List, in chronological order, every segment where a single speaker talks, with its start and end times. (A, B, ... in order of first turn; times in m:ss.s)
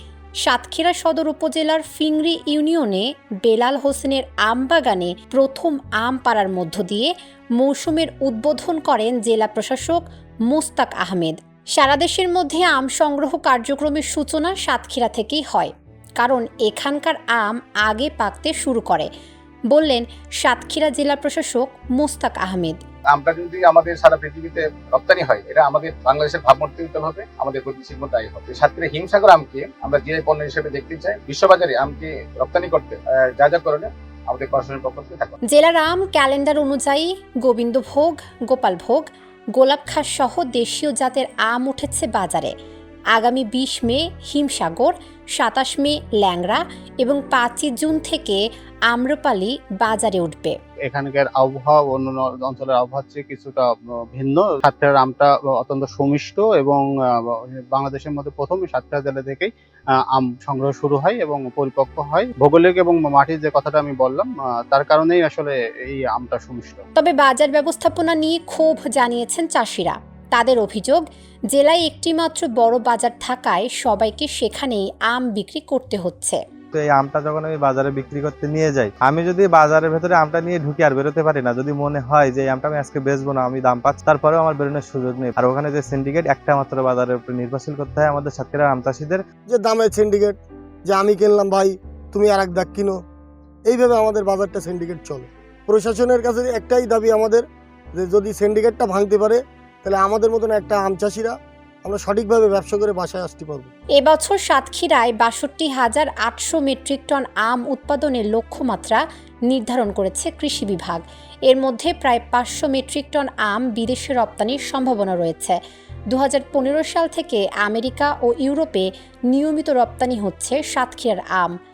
0:00.4-0:19.1 A
0:19.7-0:22.8 A
0:23.1-0:35.4 B
0:35.5-0:42.5 A
0:43.1-0:50.6 A
0:50.9-0:59.5 C
1:00.1-1:06.8 C
1:07.0-1:16.4 A
1:16.7-1:29.2 D
1:29.5-1:33.0 E
1:33.6-1:37.4 E
1:38.0-1:43.7 E
1:44.0-1:55.6 A
1:56.1-2:01.6 A